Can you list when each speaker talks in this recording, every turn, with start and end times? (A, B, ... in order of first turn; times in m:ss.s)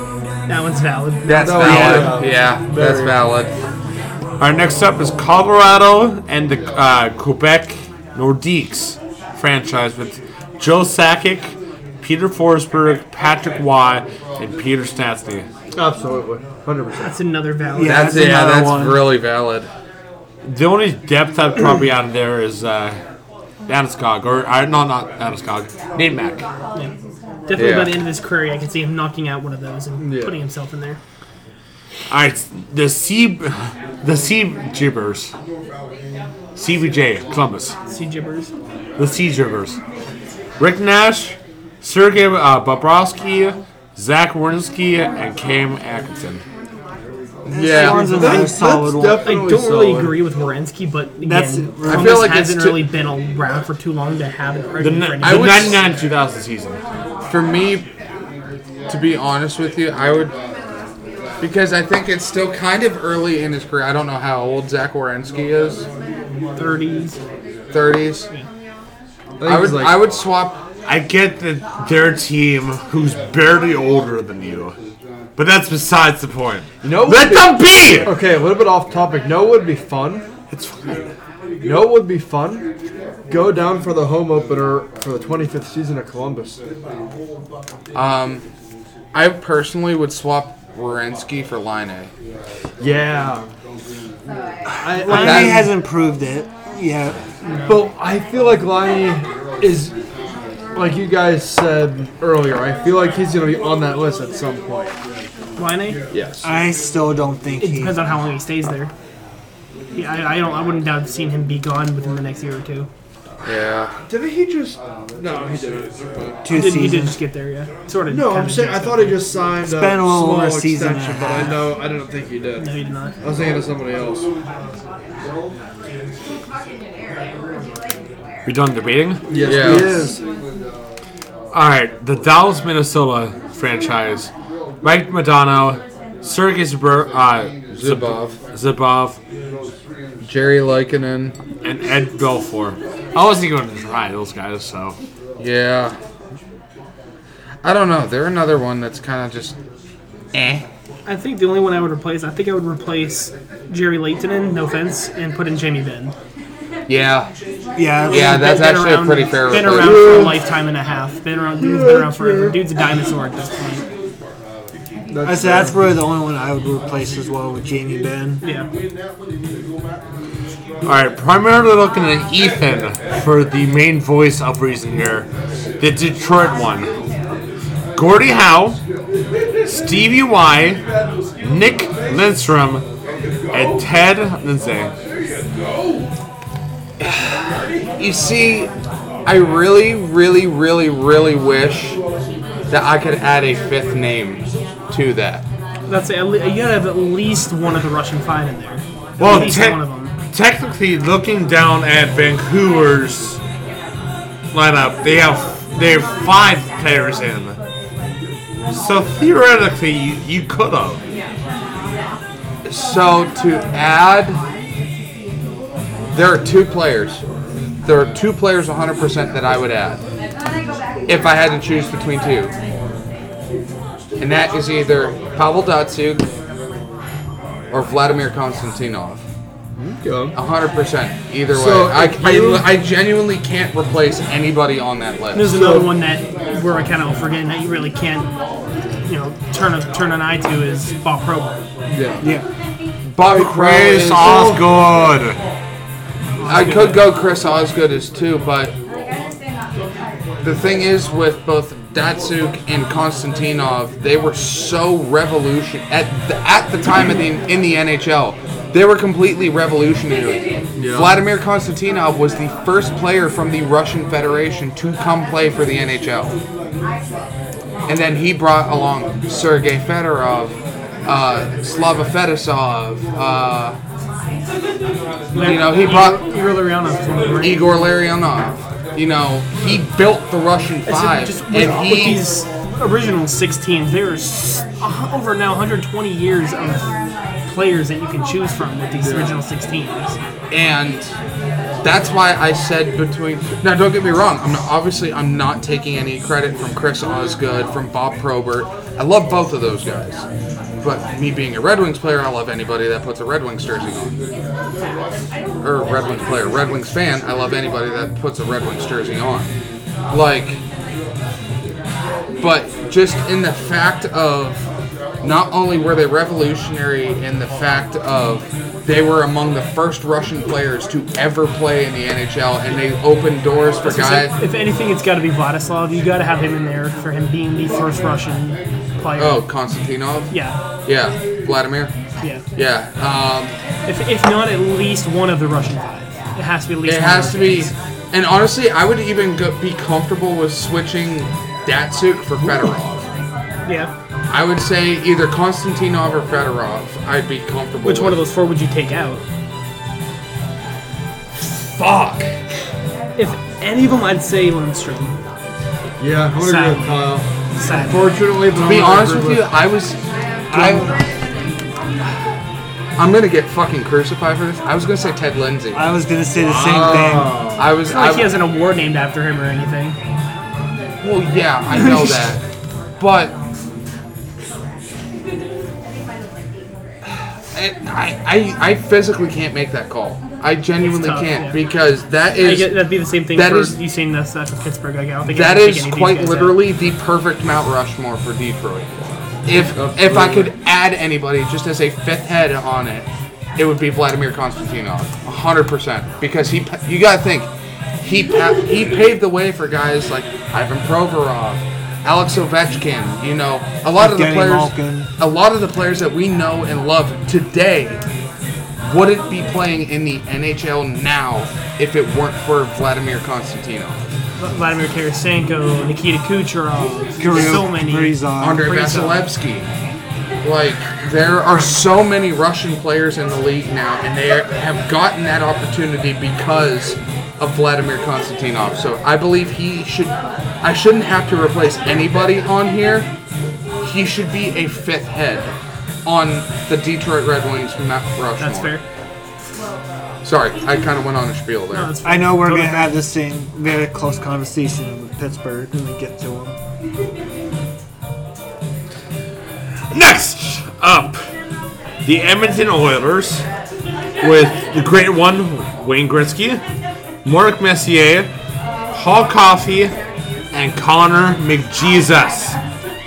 0:00.5-0:02.2 A
0:01.3-0:03.5 B
0:01.4-0:03.2 C
0:04.4-0:15.5 D
0:15.8-0:17.2 C
0:17.0-0:18.2 A
0:17.8-0:19.0 E
0:17.8-0:19.7 B
0:20.4-0:23.0 D
0:23.7-0:26.5 D
0:27.5-0:31.0 A
0:27.6-0:27.9 B
0:30.0-0:30.4 C
0:32.1-0:35.3 D
0:36.6-0:37.8 D
0:37.9-0:38.5 A
0:39.0-0:39.8 D
0:40.6-0:46.4 D
0:47.4-0:48.4 B
0:47.5-0:49.3 E
0:47.7-0:50.2 C
0:49.2-0:55.7 A
0:51.2-0:52.3 E
0:51.9-0:52.9 B
0:54.8-0:56.8 D
0:55.2-0:55.8 B
0:57.3-0:57.9 B
0:58.9-1:00.3 B
1:01.4-1:05.9 B
1:06.6-1:07.2 A
1:07.7-1:08.3 B
1:09.4-1:10.1 C
1:09.4-1:10.6 B
1:10.9-1:14.8 D
1:15.4-1:18.2 D
1:16.8-1:20.3 C
1:20.5-1:21.1 D
1:21.6-1:22.7 C
1:23.3-1:26.6 C
1:27.9-1:28.4 B
1:29.1-1:32.1 B
1:32.8-1:33.5 C
1:34.8-1:35.7 C
1:34.8-1:37.2 E
1:35.1-1:35.7 B
1:37.4-1:37.9 A
1:37.7-1:39.9 C
1:40.8-1:44.9 C
1:45.6-1:46.0 A
1:46.1-1:46.4 B
1:46.4-1:48.0 E
1:47.6-1:48.9 A
1:49.9-1:52.9 A
1:53.4-1:53.9 B
1:54.1-1:56.4 C
1:56.4-1:57.2 E
1:56.5-1:59.2 A
1:58.1-2:02.7 C
1:59.6-2:01.6 E
2:02.6-2:03.2 A
2:03.2-2:04.3 C
2:08.5-2:09.3 D
2:09.3-2:10.2 C
2:09.4-2:10.1 B
2:11.5-2:14.3 D
2:14.8-2:19.2 D
2:17.7-2:18.4 B
2:20.2-2:21.4 B
2:21.6-2:25.0 D
2:25.4-2:26.0 B
2:27.6-2:29.6 B
2:30.3-2:30.7 B
2:31.1-2:36.1 A
2:36.9-2:37.3 B
2:37.8-2:38.4 E
2:38.1-2:43.9 A
2:38.1-2:40.4 B
2:39.7-2:40.4 C
2:41.6-2:42.6 C
2:45.1-2:45.8 C
2:45.2-2:48.4 E
2:48.4-2:48.7 A
2:50.8-2:55.3 D
2:55.8-2:56.9 D
2:58.0-2:58.8 D
2:59.6-3:00.8 D
3:01.4-3:02.9 D
3:03.5-3:04.9 D
3:07.0-3:07.5 B
3:08.0-3:08.7 B
3:09.3-3:12.0 B
3:12.7-3:15.4 B
3:15.9-3:20.1 A
3:19.2-3:23.4 D
3:24.5-3:27.6 D
3:28.7-3:31.0 D
3:32.7-3:34.4 B
3:36.1-3:37.2 B
3:37.8-3:40.0 B
3:41.1-3:42.5 B
3:44.2-3:46.3 B
3:47.7-3:49.2 B
3:49.8-3:50.4 C
3:50.3-3:55.6 B
3:51.5-3:52.7 C
3:55.3-3:58.3 A
3:55.5-3:55.9 C
3:59.0-4:01.6 A
4:01.9-4:02.3 C
4:02.2-4:02.5 E
4:03.0-4:04.4 B
4:03.3-4:05.4 D
4:04.2-4:04.7 C
4:06.4-4:07.0 A
4:06.4-4:08.8 B
4:10.4-4:26.4 B
4:20.8-4:21.2 C
4:27.9-4:33.8 B
4:35.3-4:37.7 A
4:35.4-4:36.3 B
4:37.4-4:42.3 B
4:40.9-4:46.9 A
4:47.5-4:50.2 A
4:49.0-4:49.4 C
4:50.5-4:51.1 B
4:51.8-5:00.3 B
5:00.8-5:04.2 B
5:05.6-5:09.5 B
5:10.1-5:10.6 B
5:12.4-5:14.7 B
5:15.2-5:24.3 B
5:23.8-5:29.4 A
5:29.2-5:30.3 B
5:30.3-5:30.6 A
5:30.8-5:32.0 B
5:32.6-5:33.6 B
5:33.9-5:37.7 A
5:36.8-5:43.1 B
5:43.7-5:43.9 A
5:44.3-5:48.2 B
5:47.8-5:49.2 A
5:51.4-5:52.3 B
5:53.2-5:55.2 A
5:56.0-5:59.5 C
5:56.4-5:58.2 A
5:58.5-6:01.1 B
6:00.5-6:00.9 E
6:03.0-6:05.8 B
6:05.7-6:07.5 E
6:06.4-6:07.7 C
6:06.7-6:08.3 B
6:07.8-6:10.0 A
6:11.0-6:12.4 B
6:13.0-6:13.4 B
6:17.5-6:22.8 B
6:20.9-6:21.6 A
6:22.4-6:26.6 A
6:23.3-6:23.8 B
6:25.3-6:37.5 B
6:29.5-6:30.5 C
6:38.0-6:48.0 B
6:44.0-6:45.1 E
6:48.8-6:54.0 B
6:54.4-6:59.3 A
6:57.2-6:58.7 E
6:58.4-6:59.7 B
7:00.4-7:13.1 B
7:13.8-7:18.8 B
7:18.4-7:18.8 A
7:20.2-7:21.9 B
7:21.7-7:23.0 A
7:22.0-7:26.6 E
7:29.9-7:31.2 D
7:32.0-7:33.4 D
7:34.2-7:36.6 D
7:37.2-7:38.3 D
7:38.9-7:39.9 D
7:40.5-7:42.6 D